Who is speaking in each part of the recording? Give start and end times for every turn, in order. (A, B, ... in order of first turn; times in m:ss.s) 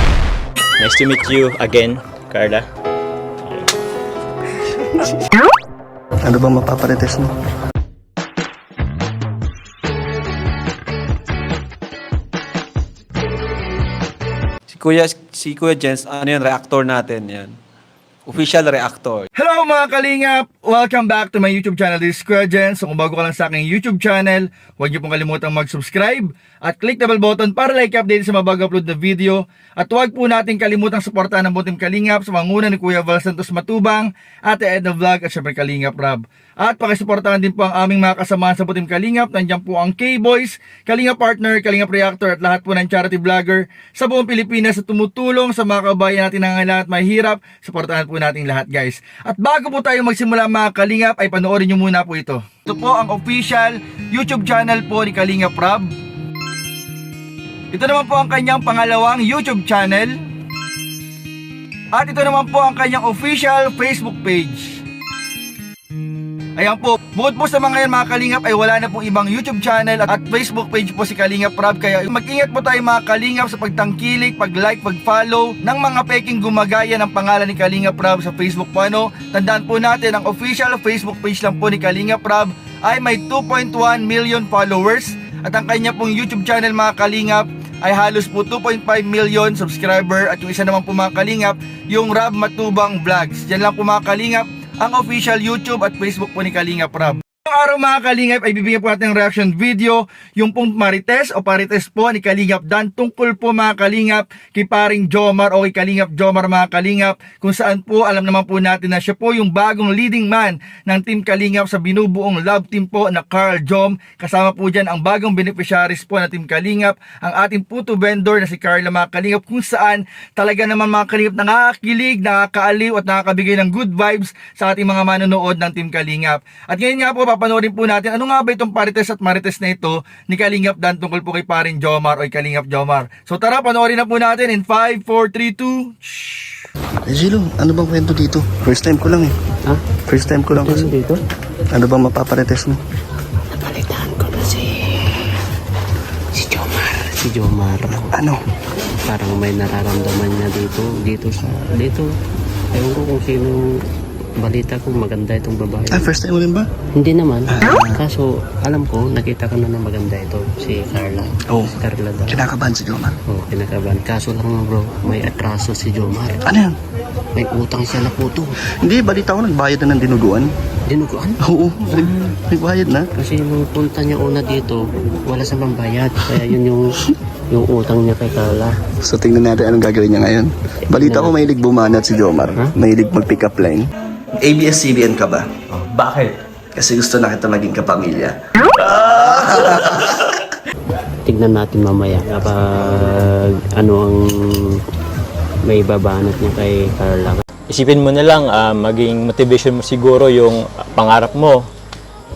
0:00.8-0:02.6 A
0:06.2-0:07.3 B
0:14.7-0:17.6 C
0:18.2-0:19.3 C
0:19.4-0:55.9 D
0:57.7-1:00.2 D
1:01.9-1:04.8 D
1:06.6-2:16.7 D
2:17.0-2:19.3 B
2:20.1-2:20.9 B
2:20.5-2:21.2 E
2:21.7-2:22.8 B
2:23.5-2:25.3 E
2:26.3-2:28.2 E
2:28.0-2:28.4 B
2:29.0-2:32.1 E
2:32.7-2:33.8 E
2:34.4-2:36.1 E
2:35.9-2:36.7 B
2:36.9-2:42.4 E
2:37.5-2:38.0 B
2:42.3-2:43.2 B
2:43.3-2:46.4 E
2:46.4-2:46.7 B
2:47.3-2:48.6 E
2:48.8-2:50.5 B
2:50.9-2:52.3 E
2:51.4-2:53.1 B
2:53.1-2:58.7 E
2:59.0-3:03.8 B
3:00.9-3:01.6 E
3:04.4-3:05.5 B
3:05.7-3:06.3 A
3:06.7-3:08.3 B
3:08.7-3:10.4 A
3:08.9-3:10.4 B
3:11.2-3:14.8 E
3:15.6-3:17.4 E
3:17.7-3:21.6 A